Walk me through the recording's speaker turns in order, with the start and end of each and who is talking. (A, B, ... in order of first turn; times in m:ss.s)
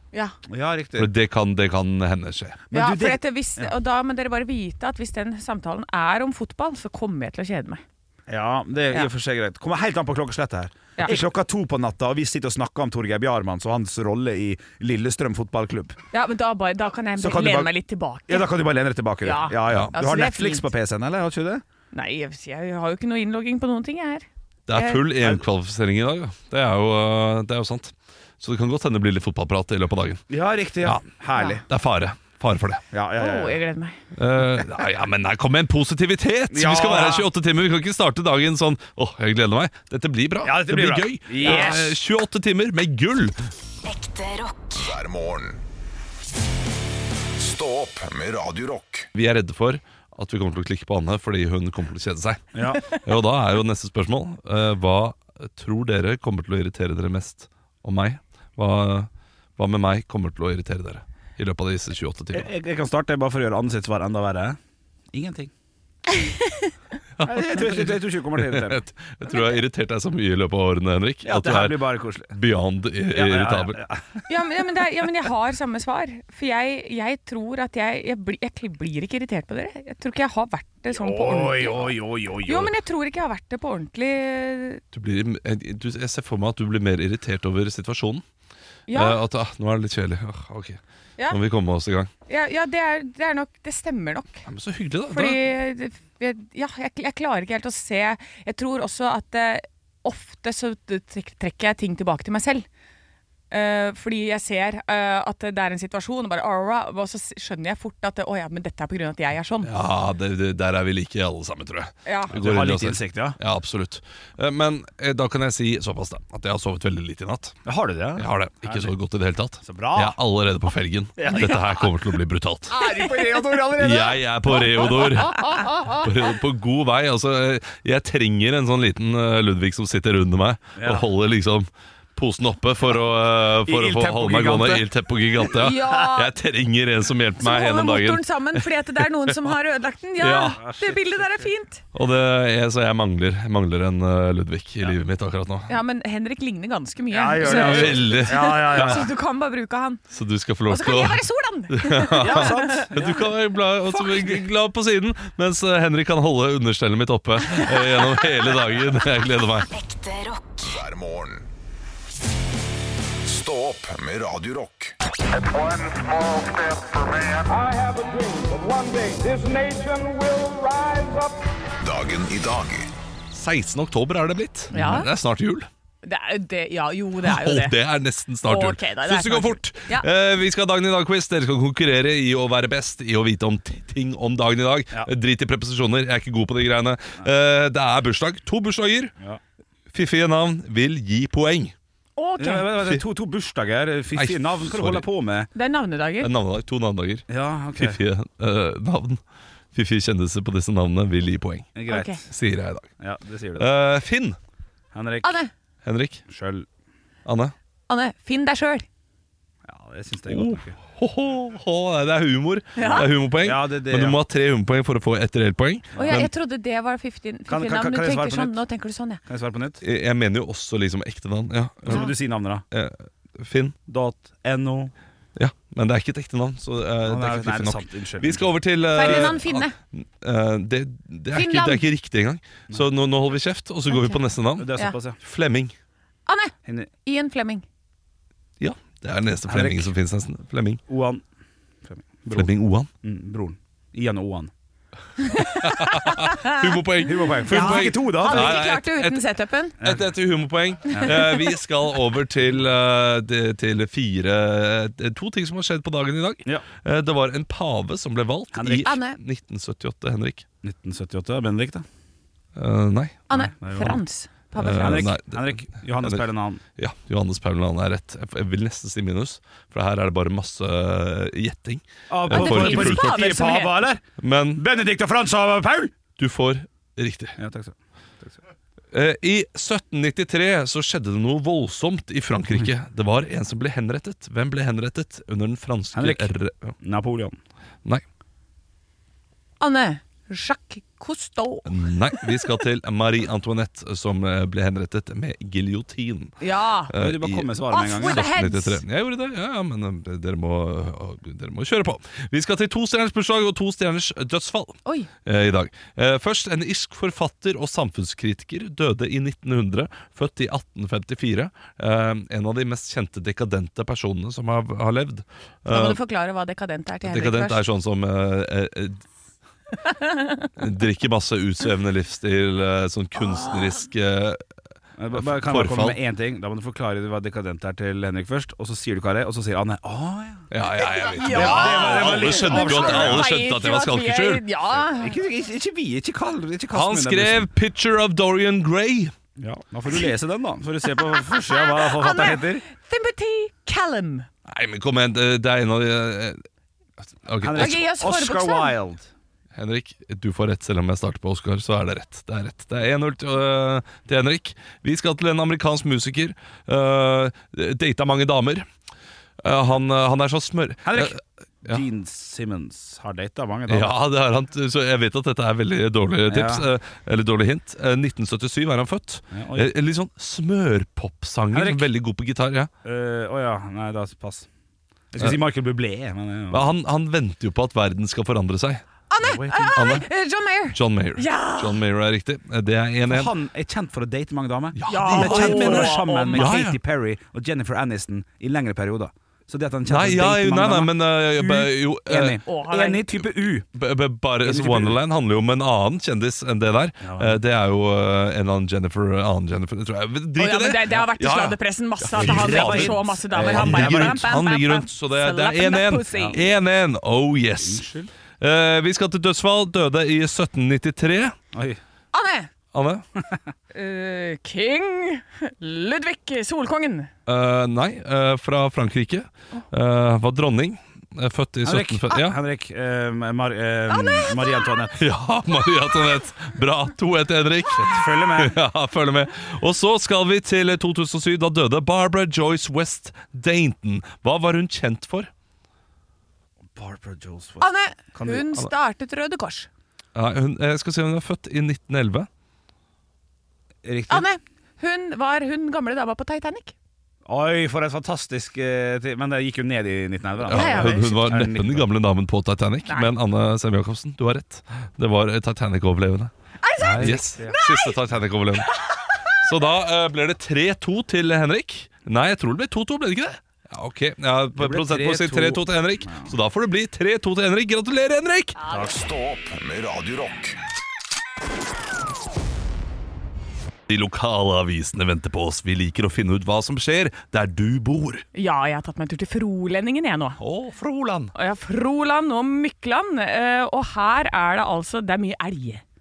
0:00.5-0:01.1 A
0:01.0-0:02.6 B
0:02.7-0:03.7 A
0:02.7-0:07.8 C
0:08.3-0:16.0 A
0:16.1-0:18.5 C
0:17.2-0:21.6 A
0:19.2-0:20.7 C
0:21.9-0:25.1 C
0:24.7-0:30.2 B
0:30.3-0:31.6 A
0:31.4-0:31.6 C
0:31.7-0:32.8 B
0:32.9-0:33.6 A
0:33.2-0:34.0 C
0:34.2-0:43.4 B
0:36.5-0:37.3 A
0:40.4-0:41.9 A
0:41.4-0:41.8 C
0:44.7-0:45.6 D
0:47.4-0:49.1 D
0:49.2-1:02.5 B
0:52.5-0:52.8 A
1:02.3-1:04.6 A
1:05.1-1:05.5 A
1:06.2-1:06.7 C
1:07.2-1:13.8 B
1:07.2-1:08.8 A
1:11.2-1:12.3 A
1:13.1-1:14.2 A
1:14.3-1:21.9 C
1:20.9-1:22.7 A
1:22.5-1:24.8 C
1:24.9-1:28.2 B
1:28.9-1:29.2 C
1:28.9-1:32.1 B
1:32.3-1:34.4 C
1:34.5-1:35.4 B
1:35.1-1:42.6 C
1:43.5-1:49.7 C
1:49.6-1:57.6 B
1:52.1-1:52.3 C
1:52.3-1:53.4 A
1:57.7-1:58.9 A
1:58.2-2:02.8 B
1:59.6-2:00.2 A
2:01.2-2:02.0 A
2:02.7-2:06.0 A
2:03.8-2:19.5 B
2:10.8-2:11.1 A
2:13.6-2:14.9 A
2:15.5-2:16.3 C
2:17.4-2:21.8 C
2:20.2-2:20.6 B
2:20.5-2:21.5 A
2:21.9-2:25.7 B
2:25.7-2:30.0 C
2:27.1-2:29.1 A
2:27.4-2:29.1 B
2:30.1-2:39.7 B
2:30.7-2:32.9 C
2:32.2-2:33.3 A
2:33.8-2:34.5 A
2:40.5-2:41.5 D
2:43.2-2:47.5 D
2:47.5-2:51.4 E
2:51.8-2:52.9 D
2:53.3-2:55.7 B
2:54.7-2:55.1 C
2:56.0-2:57.8 C
2:57.2-3:09.1 B
2:58.5-3:00.1 C
3:09.9-3:11.7 B
3:12.2-3:12.8 C
3:12.4-3:15.5 A
3:14.2-3:15.0 B
3:15.6-3:16.3 C
3:16.2-3:19.2 B
3:17.3-3:18.0 A
3:19.7-3:21.8 B
3:21.8-3:22.2 A
3:21.9-3:22.2 C
3:22.3-3:22.9 B
3:23.0-3:23.7 A
3:23.6-3:24.4 B
3:24.9-3:25.4 A
3:25.2-3:25.5 C
3:25.8-3:26.2 B
3:26.3-3:26.7 A
3:27.3-3:27.5 B
3:27.9-3:28.9 C
3:29.6-3:30.8 A
3:30.3-3:36.3 B
3:32.8-3:33.1 C
3:33.4-3:34.2 A
3:35.9-3:36.3 A
3:36.0-3:39.2 C
3:37.5-3:38.6 A
3:39.3-3:39.8 A
3:39.8-3:42.1 B
3:41.8-3:42.6 A
3:42.7-3:43.8 B
3:43.9-3:44.9 A
3:45.4-3:55.7 B
3:47.0-3:48.5 A
3:48.9-3:49.7 C
3:51.3-3:51.8 C
3:53.9-3:54.2 C
3:54.6-3:55.2 A
3:56.3-3:57.6 C
3:56.6-3:56.9 A
3:58.6-4:00.8 B
3:59.5-3:59.9 A
4:00.9-4:01.2 A
4:01.8-4:04.5 A
4:02.3-4:02.9 B
4:05.3-4:06.5 C
4:05.6-4:09.2 B
4:07.0-4:08.6 A
4:07.5-4:09.8 C
4:09.8-4:20.4 B
4:10.9-4:11.2 A
4:18.5-4:18.9 A
4:18.8-4:19.2 C
4:20.6-4:21.8 A
4:22.6-4:23.3 B
4:23.3-4:25.1 C
4:23.3-4:24.0 A
4:24.6-4:26.2 B
4:24.6-4:26.6 A
4:26.8-4:33.4 B
4:32.1-4:34.0 A
4:32.3-4:33.8 C
4:34.2-4:34.6 B
4:34.6-4:36.0 A
4:36.2-4:37.4 B
4:37.4-4:38.4 A
4:38.9-4:46.8 B
4:45.9-4:47.4 A
4:49.6-4:52.3 C
4:51.7-4:56.4 B
4:56.4-4:56.9 C
4:56.9-4:57.5 B
4:57.0-4:58.3 A
4:57.7-4:58.8 C
4:58.0-5:16.0 B
5:15.7-5:17.6 C
5:17.0-5:19.0 B
5:19.8-5:20.5 C
5:20.6-5:24.4 B
5:25.0-5:30.5 A
5:25.1-5:26.0 B
5:30.5-5:34.4 B
5:30.8-5:35.2 C
5:31.2-5:33.3 A
5:34.9-5:37.5 A
5:36.7-5:39.1 B
5:39.4-5:42.6 A
5:41.3-5:44.3 C
5:44.5-5:46.4 B
5:47.1-5:47.8 B
5:47.4-5:49.1 A
5:47.6-5:48.7 C
5:49.6-5:58.6 B
5:59.4-6:01.8 B
6:00.8-6:04.0 A
6:03.7-6:12.7 B
6:06.3-6:06.6 A
6:09.3-6:09.7 A
6:11.5-6:11.9 A
6:12.8-6:14.5 A
6:15.1-6:16.7 A
6:16.5-6:18.8 B
6:19.1-6:21.8 C
6:19.2-6:19.8 A
6:19.5-6:20.1 B
6:20.7-6:23.3 B
6:23.1-6:33.7 A
6:24.8-6:26.8 B
6:24.9-6:26.6 C
6:29.9-6:32.4 B
6:32.5-6:33.2 C
6:33.8-6:47.8 B
6:34.4-6:35.0 A
6:37.0-6:37.4 A
6:40.4-6:46.4 C
6:42.1-6:44.3 A
6:46.1-6:46.4 A
6:47.6-6:48.1 A
6:48.4-6:51.4 B
6:51.5-6:51.8 A
6:52.1-6:52.5 C
6:52.7-6:53.0 B
6:53.7-6:57.1 C
6:57.3-7:02.4 B
7:01.6-7:05.0 A
7:03.9-7:04.5 C
7:05.0-7:15.3 B
7:07.8-7:08.6 A
7:16.8-7:18.6 A
7:17.6-7:19.7 C
7:20.2-7:22.3 B
7:23.8-7:24.3 A
7:24.1-7:26.7 C
7:27.3-7:31.9 A
7:30.5-7:36.3 B
7:30.5-7:31.1 C
7:36.6-7:37.9 C
7:36.8-7:37.6 A
7:37.0-7:38.7 B
7:39.4-7:48.6 B
7:44.6-7:46.3 A
7:48.6-7:48.9 C
7:48.8-7:50.6 D
7:53.9-7:58.2 B
7:58.4-8:00.4 C
8:00.4-8:01.3 B
8:01.4-8:05.8 C